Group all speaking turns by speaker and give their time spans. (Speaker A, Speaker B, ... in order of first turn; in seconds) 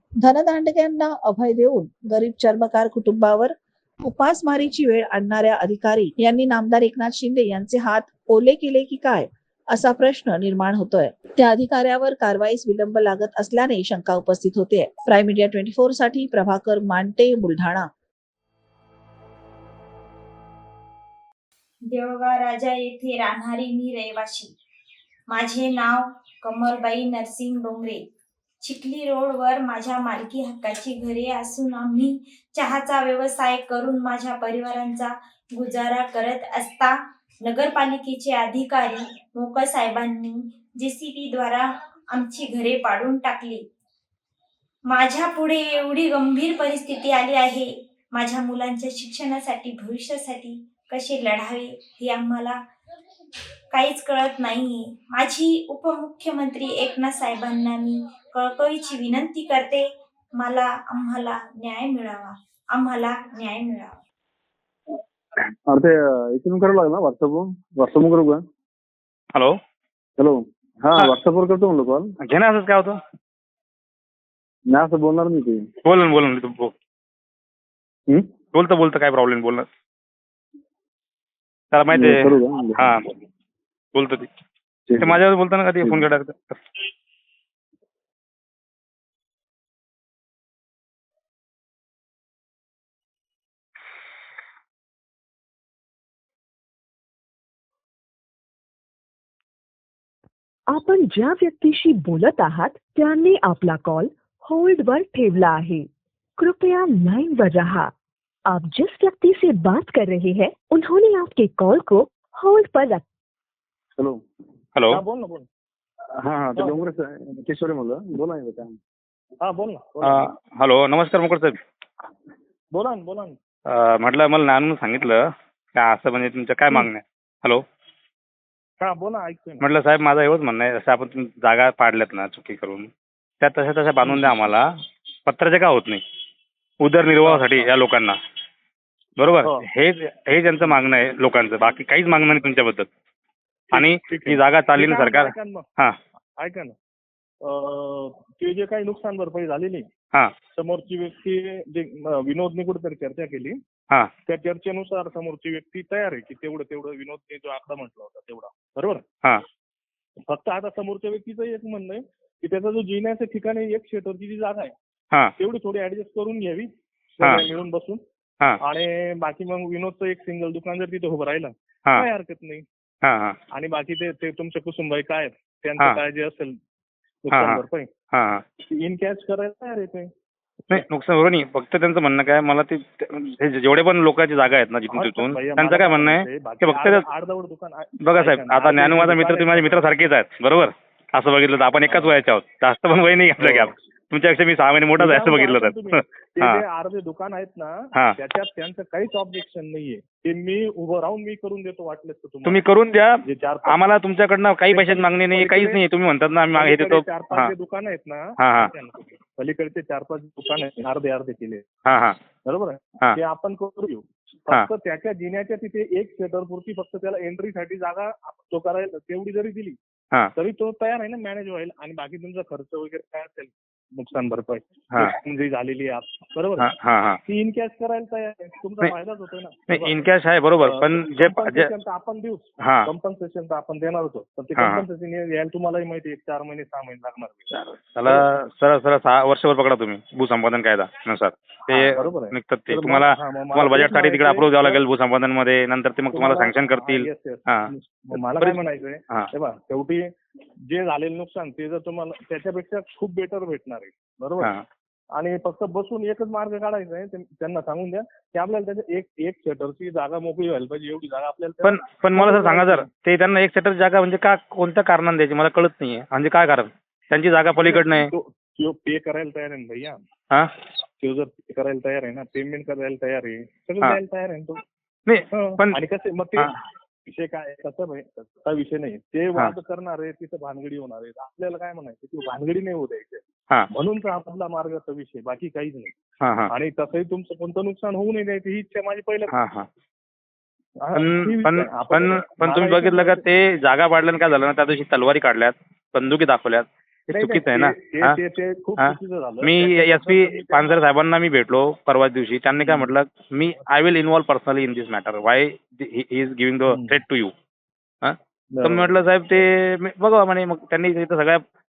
Speaker A: 0.2-17.9
Speaker B: 21.9-24.5, 25.3-28.1, 28.6-43.6, 44.9-52.6, 53.7-64.0
Speaker C: 65.7-68.5, 70.2-72.2, 74.7-75.7, 81.9-82.9, 84.9-85.2, 85.8-86.1, 116.2-118.8
Speaker D: 69.3-69.6, 72.2-73.0, 75.8-76.7, 78.5-79.7, 81.7-83.0, 84.0-84.3, 85.0-86.6, 114.8-115.0, 120.0-121.6, 123.7-125.2, 125.8-127.7, 129.6-136.0, 136.8-138.2, 139.2-142.9, 143.8-146.0, 173.0-173.4, 177.3-178.4, 180.7-187.1, 188.0-196.6, 202.4-207.5, 208.4-208.7, 211.8-212.2, 226.6-227.2, 229.7-231.7, 232.6-232.9, 234.6-234.9, 237.5-249.3, 261.6-268.1, 275.1-275.8, 286.2-286.5, 289.3-289.7, 291.0-298.2, 298.8-307.3, 308.0-311.4
Speaker E: 100.7-107.9, 108.5-113.1
Speaker F: 114.9-115.5, 119.4-120.3, 122.7-123.4, 128.8-129.7, 134.0-134.4, 137.2-137.7, 139.4-139.7, 143.7-145.7, 146.4-146.8, 147.4-149.9, 150.5-153.6, 154.3-159.1, 160.3-164.8, 165.4-168.0, 168.6-172.7, 173.5-176.6, 177.2-177.9, 178.6-180.1, 184.9-190.0, 191.9-192.2, 193.4-193.8, 195.0-202.7, 203.3-203.8, 204.7-205.9, 206.5-211.7, 212.4-219.8, 220.4-226.7, 227.2-238.3, 241.7-244.9, 246.1-250.1, 250.7-254.5, 255.1-262.9, 267.5-270.0, 271.0-274.6, 275.3-285.9, 286.5-289.3, 290.8-293.2, 297.1-300.9, 302.6-302.9, 306.7-307.0, 308.5-309.5